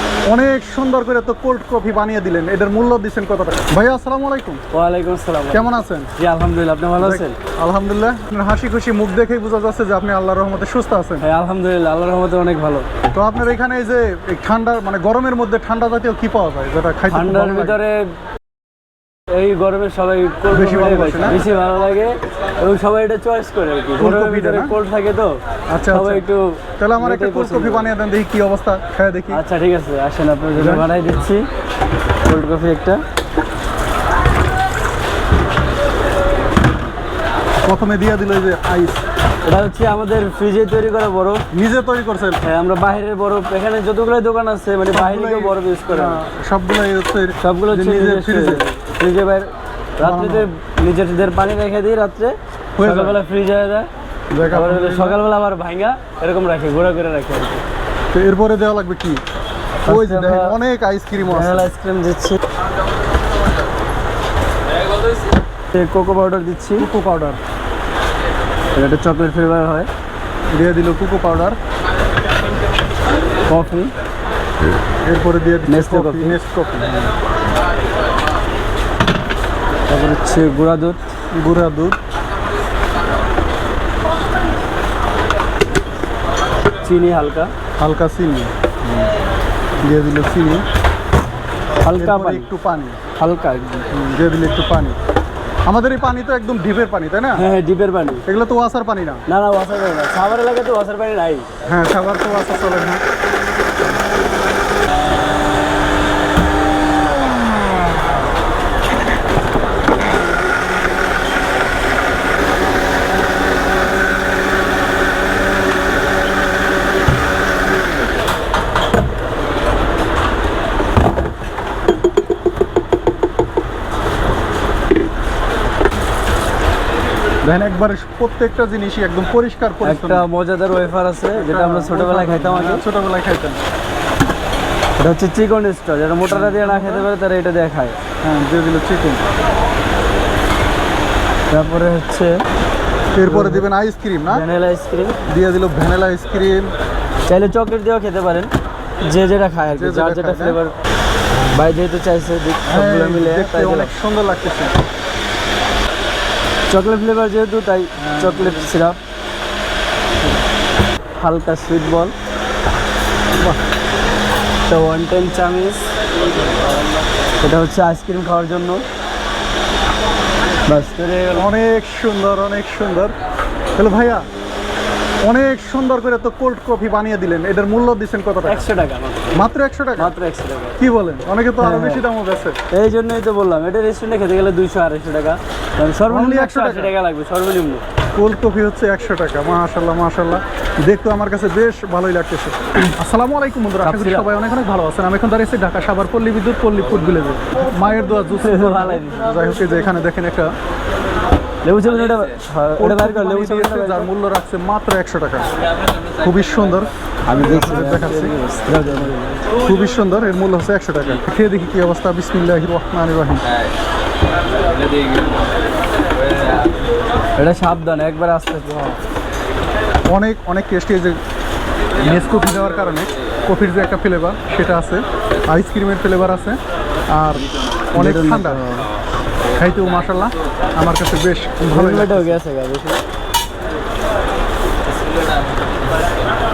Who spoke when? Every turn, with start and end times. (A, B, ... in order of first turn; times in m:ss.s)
0:00.3-0:04.6 A
0:04.7-0:07.4 B
0:05.5-0:06.1 A
0:07.0-0:11.2 A
0:11.2-0:12.9 B
0:13.1-0:17.8 A
0:17.1-0:18.1 B
0:19.3-0:25.4 B
0:20.5-0:21.4 A
0:24.0-0:24.8 A
0:25.7-0:26.2 A
0:25.9-0:27.9 B
0:26.8-0:29.4 A
0:29.3-0:31.5 B
0:30.6-0:30.8 A
0:32.2-0:33.0 B
0:37.6-0:39.0 A
0:39.4-0:41.4 B
0:41.5-0:42.4 A
0:42.4-0:46.2 B
0:44.9-0:48.6 A
0:47.4-0:53.9 B
0:50.0-0:50.5 A
0:52.8-0:53.2 A
0:54.3-0:55.2 A
0:54.5-0:57.6 B
0:58.1-0:59.2 A
0:59.8-1:00.6 B
0:59.8-1:01.7 A
1:01.2-1:02.4 B
1:05.7-1:06.9 B
1:06.8-1:07.4 A
1:08.8-1:09.9 B
1:10.5-1:11.6 A
1:13.5-1:13.9 B
1:15.0-1:17.1 A
1:15.7-1:16.4 B
1:19.9-1:21.0 B
1:21.3-1:22.0 A
1:26.8-1:27.5 B
1:27.8-1:28.5 A
1:29.8-1:30.6 A
1:31.8-1:32.5 B
1:31.9-1:33.0 A
1:33.2-1:33.9 B
1:33.9-1:35.0 A
1:35.6-1:37.5 A
1:37.3-1:38.2 B
1:38.2-1:39.2 A
1:39.3-1:41.5 B
1:41.6-1:43.0 A
2:07.4-2:10.2 A
2:09.8-2:12.8 B
2:11.4-2:13.6 A
2:15.0-2:18.0 B
2:16.2-2:17.1 A
2:18.2-2:19.2 A
2:21.5-2:22.4 B
2:23.2-2:24.4 A
2:23.3-2:23.6 B
2:24.3-2:25.2 B
2:25.2-2:26.7 A
2:27.3-2:30.7 B
2:29.7-2:30.6 A
2:31.5-2:33.9 B
2:32.6-2:34.7 A
2:36.7-2:39.0 B
2:38.0-2:38.7 A
2:41.2-2:42.1 B
2:44.7-2:45.9 B
2:47.4-2:48.8 B
2:50.6-2:51.5 B
2:51.3-2:53.1 A
2:53.8-2:54.2 A
2:55.2-2:58.7 A
2:58.4-2:59.3 B
2:59.3-3:00.1 A
3:00.0-3:00.8 B
3:00.8-3:02.6 A
3:01.6-3:02.0 B
3:02.7-3:07.8 B
3:06.1-3:06.9 A
3:08.1-3:20.5 A
3:13.8-3:14.3 B
3:18.4-3:19.3 B
3:21.6-3:24.1 B
3:22.8-3:25.5 A
3:26.2-3:28.3 A
3:27.2-3:29.4 B
3:29.6-3:33.4 A
3:37.4-3:38.8 B
3:38.6-3:38.9 A
3:40.1-3:41.2 A
3:42.0-3:46.6 A
3:47.1-3:48.6 A
3:47.9-3:48.9 B
3:49.5-3:52.4 A
3:51.7-3:53.0 B